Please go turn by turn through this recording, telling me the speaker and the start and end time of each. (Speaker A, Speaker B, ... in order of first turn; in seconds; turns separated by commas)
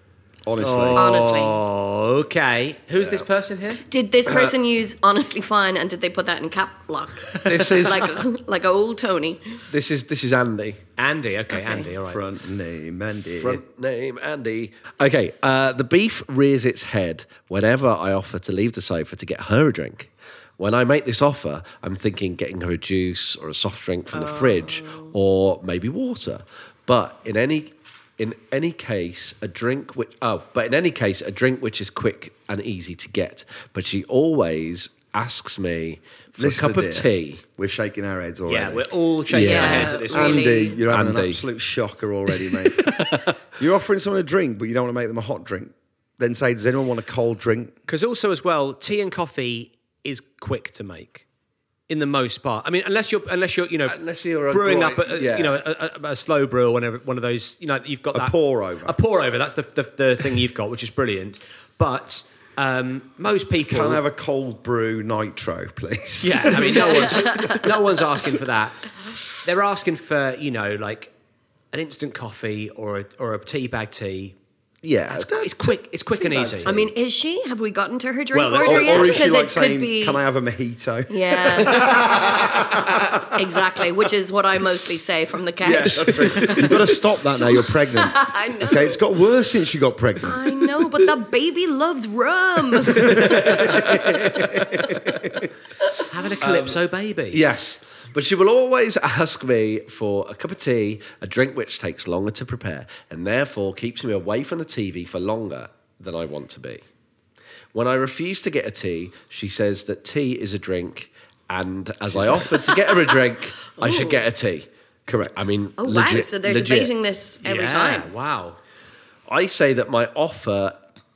Speaker A: 0.5-1.0, Speaker B: 0.6-1.2, Speaker C: 0.9-1.6, Speaker D: 1.0-3.8, Speaker C: 3.9-9.4, Speaker B: 4.3-4.5, Speaker B: 7.5-8.2, Speaker B: 9.7-10.8, Speaker D: 11.0-12.2, Speaker C: 11.5-11.9, Speaker A: 12.0-13.6, Speaker B: 13.4-37.4, Speaker C: 24.1-25.1, Speaker A: 36.4-38.9, Speaker D: 38.5-40.5, Speaker B: 39.3-40.0, Speaker C: 39.4-40.8, Speaker A: 40.0-47.7, Speaker B: 40.9-41.4, Speaker B: 42.8-43.2, Speaker D: 47.9-51.2, Speaker D: 51.9-64.0, Speaker B: 53.9-55.6, Speaker A: 58.1-59.0, Speaker A: 63.7-67.0, Speaker D: 66.2-71.1, Speaker D: 71.7-74.3, Speaker B: 74.8-75.7, Speaker D: 75.1-76.7, Speaker A: 76.2-76.8, Speaker C: 76.7-80.2, Speaker D: 78.3-79.2, Speaker A: 78.6-83.4, Speaker C: 81.1-82.2, Speaker C: 83.2-86.7, Speaker A: 85.6-90.6, Speaker C: 87.4-89.0, Speaker C: 90.2-93.5, Speaker A: 93.0-94.7, Speaker B: 93.1-94.1, Speaker D: 96.1-97.5, Speaker B: 96.4-96.8, Speaker B: 97.3-106.8, Speaker B: 107.7-114.7, Speaker A: 112.1-112.4, Speaker C: 113.8-114.2, Speaker A: 115.1-115.5, Speaker B: 115.4-116.9, Speaker C: 115.8-118.1, Speaker D: 117.4-118.6, Speaker B: 119.3-120.8